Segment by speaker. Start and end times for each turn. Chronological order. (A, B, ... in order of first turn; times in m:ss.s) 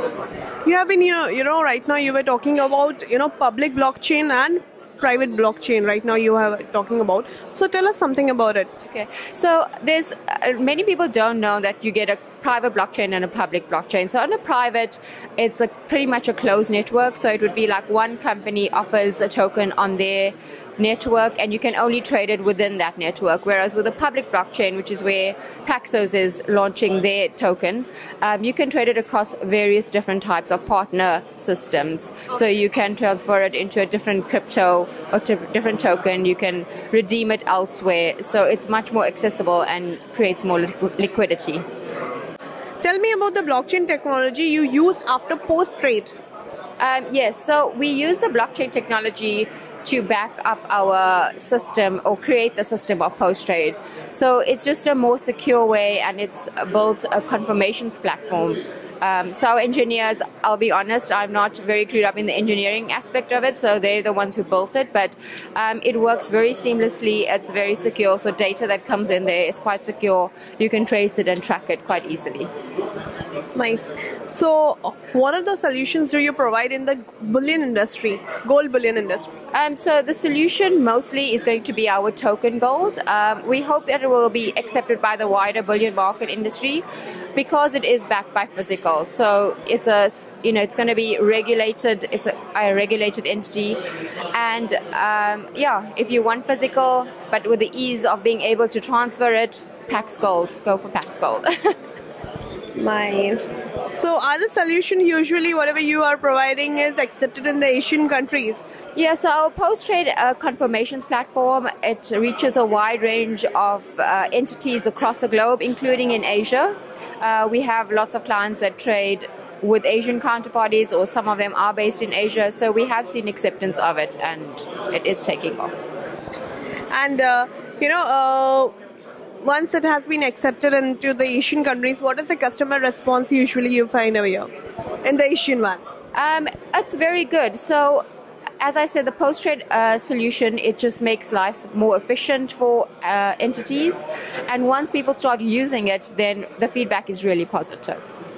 0:00.6-0:08.7 A
0:08.8-0:41.6 B
0:42.8-0:46.1 A
0:46.8-1:12.5 B
1:13.5-1:19.3 A
1:19.5-1:26.8 B
1:27.4-1:33.8 B
1:34.3-1:41.7 B
1:42.8-1:48.6 A
1:49.0-2:05.7 B
2:06.9-2:08.7 A
2:09.4-2:14.5 A
2:15.0-2:15.8 A
2:16.1-2:18.0 B
2:18.6-2:28.0 B